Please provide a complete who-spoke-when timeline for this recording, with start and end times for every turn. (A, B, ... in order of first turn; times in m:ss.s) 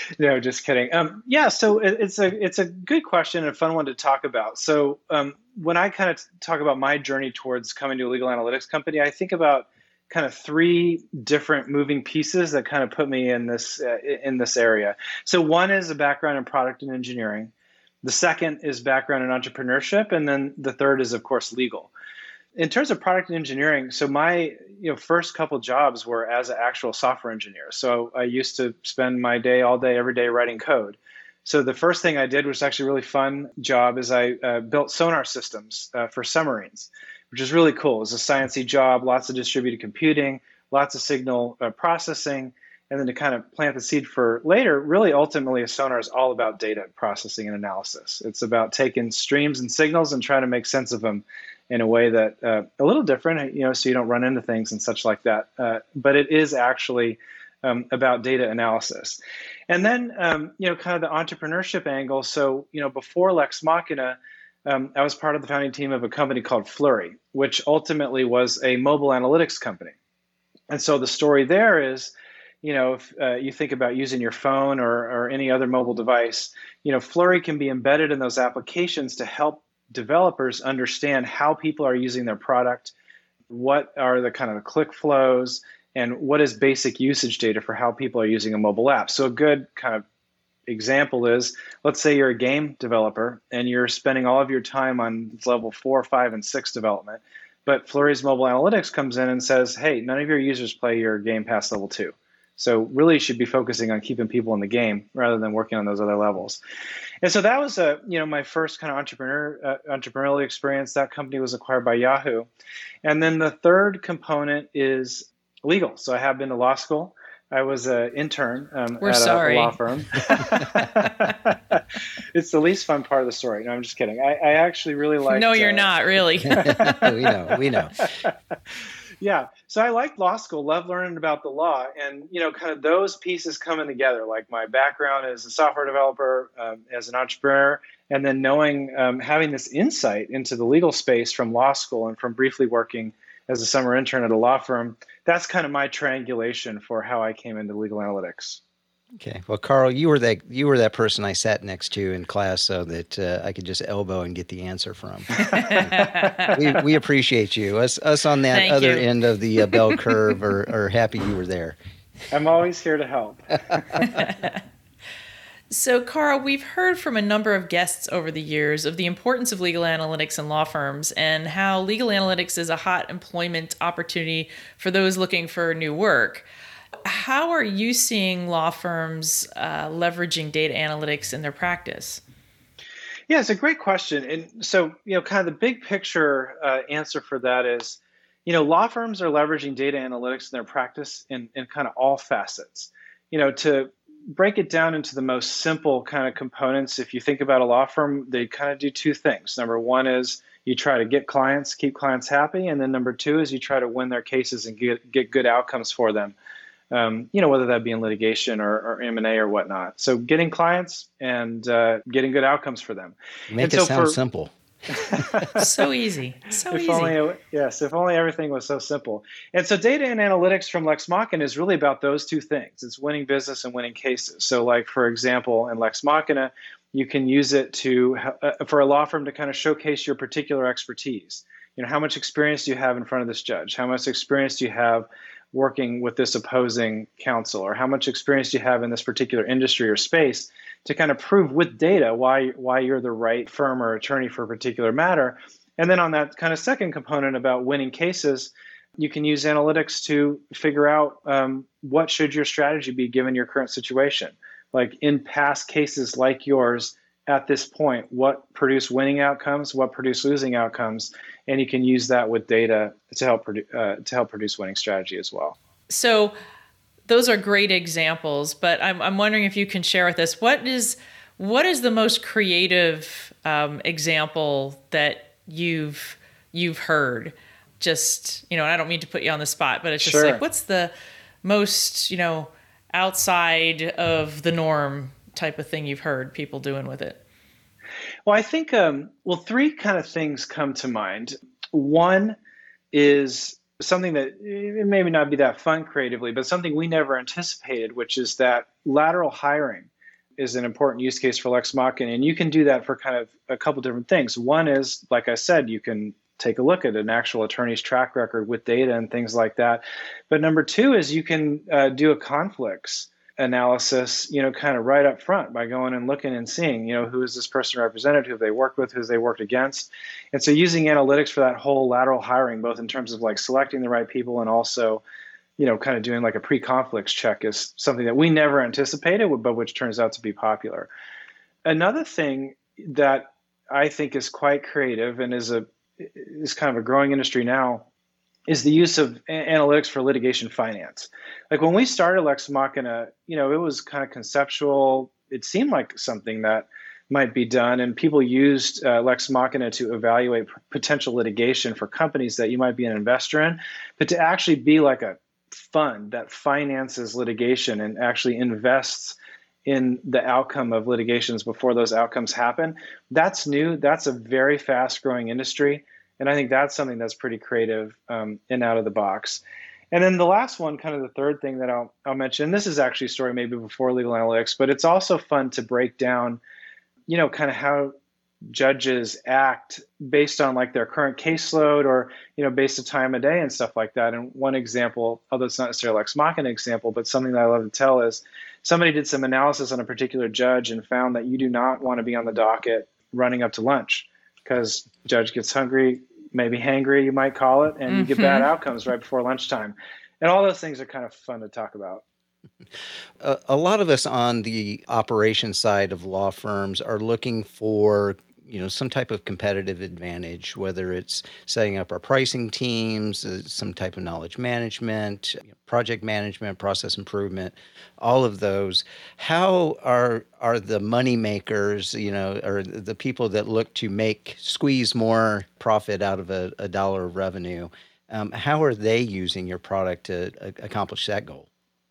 0:00.2-0:17.5 A
0:18.0-0:21.9 A
0:22.6-1:10.0 A
1:10.7-1:22.9 A
1:23.5-1:30.0 A
1:30.7-1:46.6 A
1:47.2-1:52.5 A
1:53.0-2:01.8 A
1:59.0-1:59.8 B
2:00.3-2:00.8 B
2:02.3-2:06.0 A
2:05.3-2:07.1 B
2:06.5-2:07.9 C
2:06.6-2:07.0 A
2:08.0-2:08.3 A
2:09.2-2:28.6 A
2:29.2-2:41.8 C
2:35.4-2:36.6 B
2:38.5-2:39.1 B
2:39.6-2:40.2 B
2:42.3-2:43.9 A
2:44.0-2:44.6 B
2:45.7-2:56.4 B
2:57.0-3:02.2 B
3:03.3-3:26.4 A
3:26.9-3:34.2 A
3:33.5-3:35.5 C
3:35.1-3:35.7 A
3:35.5-3:37.2 B
3:36.7-4:25.6 A
4:25.9-4:26.3 B
4:27.1-4:40.9 B
4:40.0-4:40.4 A
4:41.4-4:47.2 B
4:48.3-4:52.4 A
4:52.9-5:25.0 A
5:25.6-5:30.9 A
5:31.7-5:37.9 A
5:38.5-6:16.4 A
6:17.1-6:17.9 A
6:18.5-6:42.0 A
6:37.9-6:38.5 B
6:43.2-7:11.5 C